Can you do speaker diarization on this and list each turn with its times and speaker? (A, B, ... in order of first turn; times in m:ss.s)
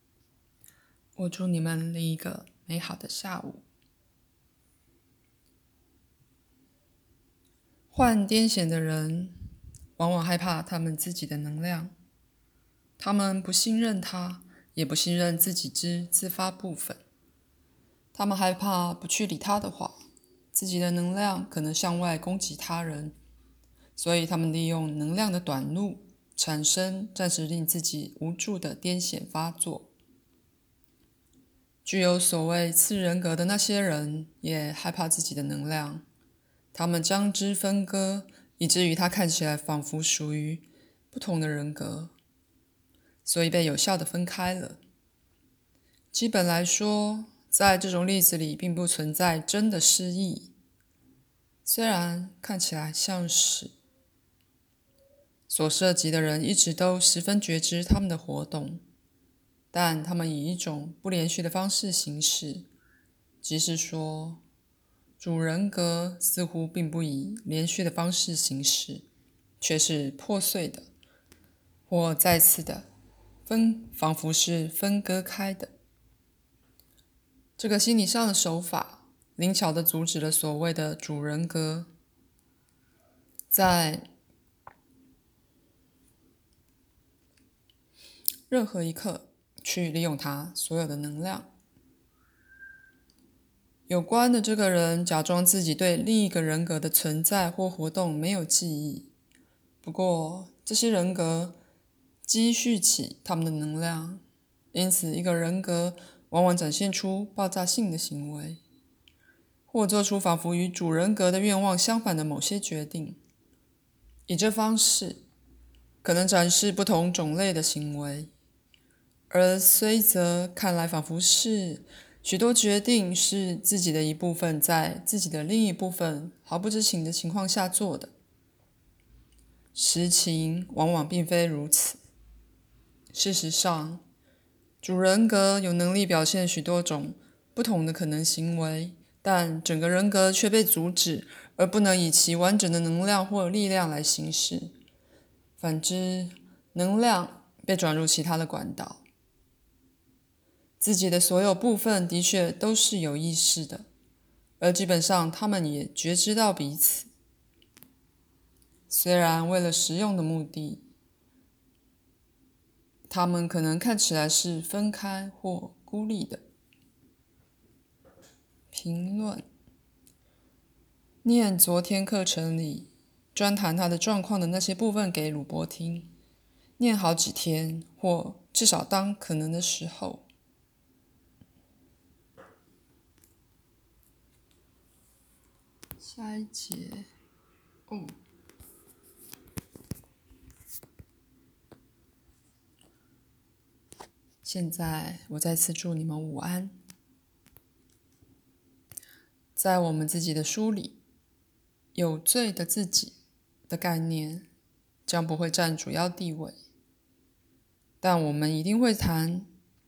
0:01.2-0:03.6 A
0:07.9-0:09.4 A
0:10.0-0:11.9 A
0:13.0-0:17.0 A
0:18.1-0:20.0 A
0:20.5-0:23.2 A
0:24.0-0:29.9 A
0:31.8-0:36.0 A
0:36.7-0:42.1 A
0:43.2-0:44.8 A
0:46.1-0:50.5 A
0:51.6-0:53.7 A
0:55.5-0:58.8 A
0:59.7-1:02.7 A
1:03.4-1:04.4 A
1:05.2-1:09.1 A
1:09.6-1:10.9 A
1:11.9-1:12.9 A
1:13.5-1:15.7 A
1:17.6-1:21.9 A
1:23.5-1:24.1 A
1:28.5-1:31.5 A
1:33.9-1:39.1 A
1:39.8-1:41.6 A
1:42.2-1:44.2 A
1:44.7-1:48.6 A
1:49.7-1:53.2 A
1:54.3-1:55.2 A
1:56.0-1:58.3 A
1:59.3-2:08.1 A
2:09.7-2:12.0 A
2:13.1-2:14.0 A
2:14.8-2:24.7 A
2:25.6-2:29.0 A
2:30.8-2:33.9 A
2:34.6-2:37.1 A
2:38.9-2:40.8 A
2:43.1-2:46.4 A
2:48.7-2:49.4 A
2:51.2-2:56.1 A
2:56.8-3:00.3 A
3:06.0-3:07.1 A
3:07.9-3:08.2 A
3:14.4-3:16.8 A
3:19.6-3:21.0 A
3:22.0-3:23.2 A
3:23.7-3:24.5 A
3:25.1-3:26.6 A
3:28.0-3:29.5 A